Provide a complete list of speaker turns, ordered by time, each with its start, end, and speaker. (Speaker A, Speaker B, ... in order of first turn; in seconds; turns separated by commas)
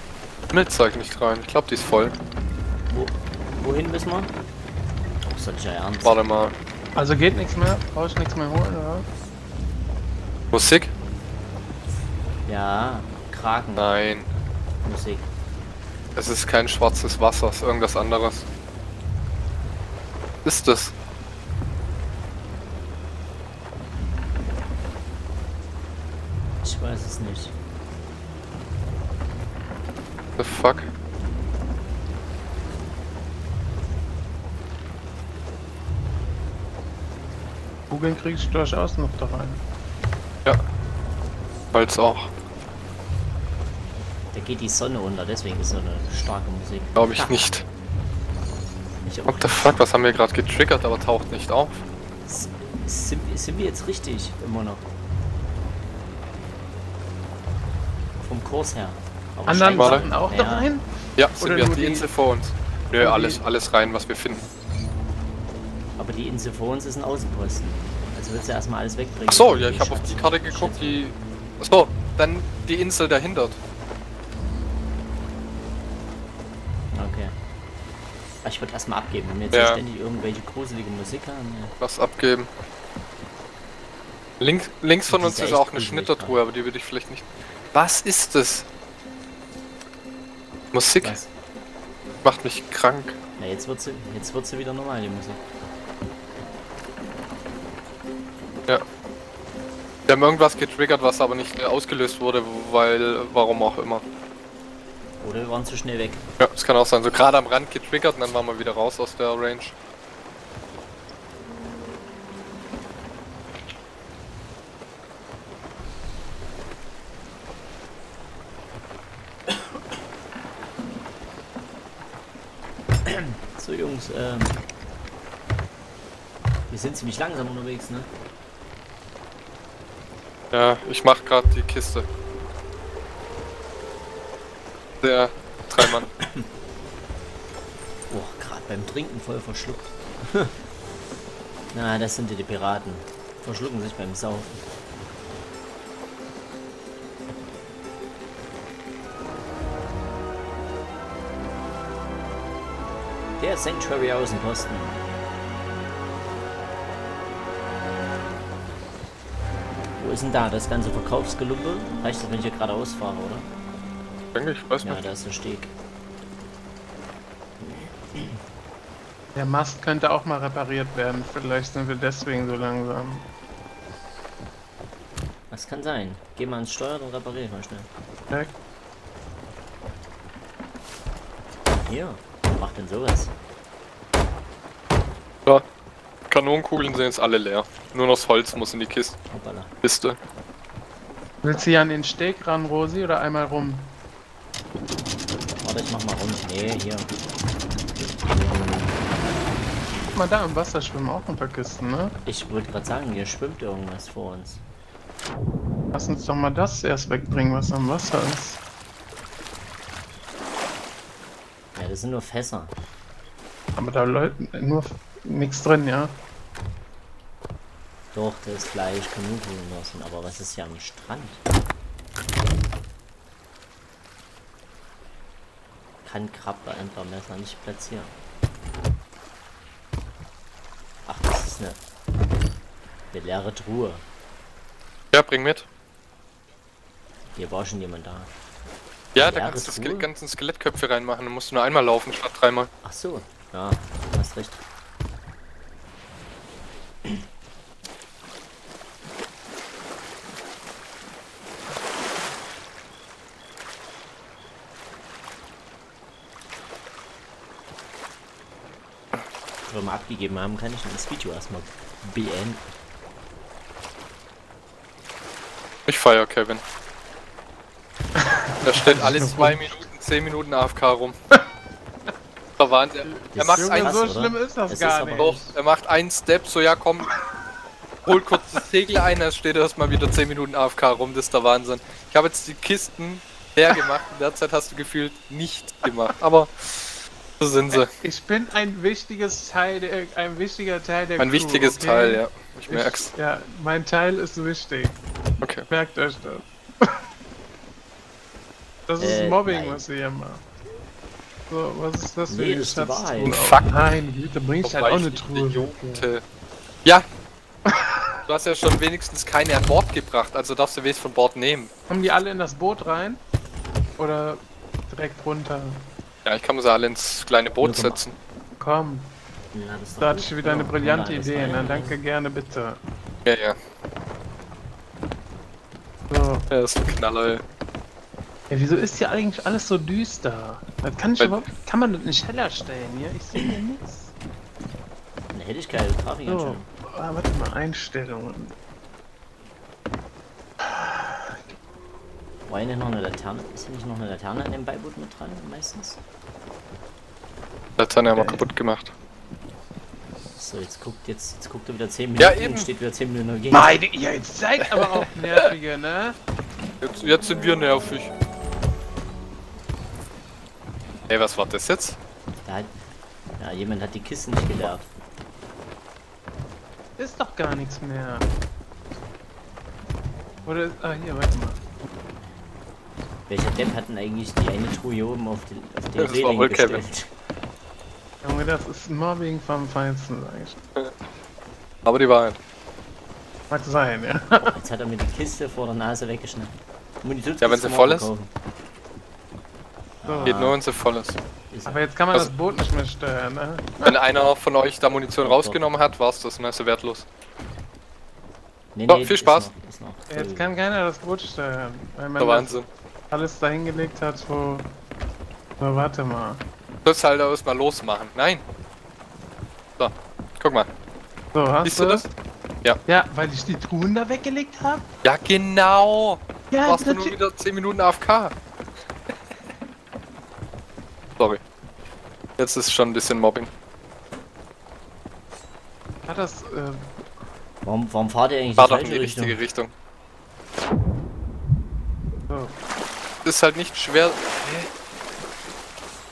Speaker A: 0.5-2.1, Speaker B: 2.9-4.3, Speaker B: 5.2-6.2, Speaker A: 6.0-6.5, Speaker C: 6.9-9.1, Speaker A: 10.5-10.9, Speaker B: 12.4-13.9, Speaker A: 13.8-14.3, Speaker B: 14.8-15.3, Speaker A: 16.1-18.4, Speaker A: 20.4-20.9, Speaker B: 26.6-27.5, Speaker A: 30.4-30.9, Speaker C: 37.9-39.6, Speaker A: 41.7-42.3, Speaker B: 44.3-47.6, Speaker A: 47.0-47.6, Speaker B: 49.0-49.8, Speaker A: 49.3-51.8, Speaker B: 52.2-54.8, Speaker B: 58.2-60.7, Speaker C: 59.5-62.1, Speaker A: 59.7-60.0, Speaker A: 61.2-64.4, Speaker C: 63.0-63.4, Speaker B: 66.0-71.0, Speaker A: 69.3-73.6, Speaker B: 76.9-77.3, Speaker B: 78.4-81.7, Speaker A: 79.5-79.8, Speaker A: 81.8-82.5, Speaker A: 84.4-88.7, Speaker B: 85.1-86.4, Speaker A: 90.7-91.2, Speaker B: 91.0-91.3, Speaker A: 92.2-93.2, Speaker B: 93.4-95.4, Speaker A: 100.1-104.0, Speaker B: 105.2-106.2, Speaker A: 106.4-109.7, Speaker B: 123.0-124.6, Speaker B: 126.7-128.1, Speaker A: 130.5-132.1, Speaker A: 135.0-136.1, Speaker B: 136.2-136.5, Speaker B: 138.1-140.5, Speaker B: 141.7-144.6, Speaker B: 153.4-155.0, Speaker B: 160.0-163.5, Speaker A: 164.3-165.0, Speaker B: 164.8-165.7, Speaker B: 167.6-168.4, Speaker C: 169.3-173.3, Speaker B: 175.5-177.9, Speaker B: 181.8-183.3, Speaker A: 186.3-189.2, Speaker B: 189.3-189.7, Speaker A: 189.8-190.2, Speaker C: 191.4-193.9, Speaker B: 195.6-197.1, Speaker B: 198.0-199.0, Speaker C: 200.1-202.2, Speaker B: 202.2-204.6, Speaker C: 205.9-208.6, Speaker B: 211.7-212.7, Speaker C: 213.8-216.2, Speaker B: 218.1-221.4, Speaker B: 226.0-228.1, Speaker B: 231.1-231.8, Speaker B: 233.1-234.0, Speaker A: 235.1-235.7, Speaker B: 237.3-238.3, Speaker A: 239.1-242.7, Speaker B: 239.2-240.1, Speaker B: 242.8-244.6, Speaker B: 259.7-262.6, Speaker A: 265.9-266.6, Speaker C: 268.1-269.6, Speaker A: 268.6-271.1, Speaker A: 272.6-273.9, Speaker C: 273.0-275.6, Speaker B: 273.3-275.4, Speaker A: 275.1-277.1, Speaker A: 278.1-287.9, Speaker C: 287.7-295.0, Speaker A: 291.2-293.1, Speaker A: 295.4-295.6, Speaker C: 295.7-297.0, Speaker C: 298.9-300.4, Speaker B: 299.0-299.9, Speaker C: 301.5-306.1, Speaker B: 302.3-303.4, Speaker A: 303.3-303.7, Speaker A: 304.6-306.2, Speaker C: 307.7-308.1, Speaker A: 308.2-311.7, Speaker C: 311.9-313.2, Speaker C: 314.0-315.9, Speaker A: 316.2-318.1, Speaker B: 317.6-318.0, Speaker C: 318.6-319.1, Speaker B: 319.5-322.0, Speaker C: 320.0-322.8, Speaker A: 323.2-323.6, Speaker C: 326.1-326.5, Speaker A: 326.5-327.4, Speaker C: 328.5-334.1, Speaker B: 335.3-336.7, Speaker C: 336.2-338.5, Speaker C: 340.6-341.4, Speaker B: 342.5-346.0, Speaker A: 347.8-348.9, Speaker C: 348.1-348.4, Speaker B: 350.4-353.8, Speaker A: 352.2-352.7, Speaker C: 353.5-356.2, Speaker A: 356.8-358.1, Speaker A: 361.1-362.0, Speaker B: 362.4-362.7, Speaker B: 363.4-364.9, Speaker C: 367.0-368.3, Speaker C: 370.4-371.6, Speaker B: 373.3-377.1, Speaker A: 376.0-376.8, Speaker C: 378.2-380.6, Speaker A: 381.8-382.4, Speaker C: 383.5-384.5, Speaker B: 384.4-388.3, Speaker A: 387.4-388.1, Speaker B: 390.0-390.6, Speaker C: 390.0-390.6, Speaker A: 390.2-391.2, Speaker B: 391.5-391.9, Speaker C: 391.6-393.9, Speaker A: 393.8-397.1, Speaker B: 395.2-395.6, Speaker B: 398.7-400.6, Speaker A: 398.9-399.5, Speaker C: 400.1-404.7, Speaker A: 402.2-402.7, Speaker C: 405.6-406.4, Speaker A: 406.8-408.4, Speaker A: 409.8-410.7, Speaker C: 411.3-412.0, Speaker A: 411.6-412.1, Speaker C: 412.9-414.9, Speaker A: 415.0-418.3, Speaker C: 416.5-417.2, Speaker A: 422.4-423.5, Speaker C: 426.1-426.9, Speaker B: 427.6-429.4, Speaker A: 428.6-429.7, Speaker C: 432.3-432.6, Speaker A: 433.2-434.7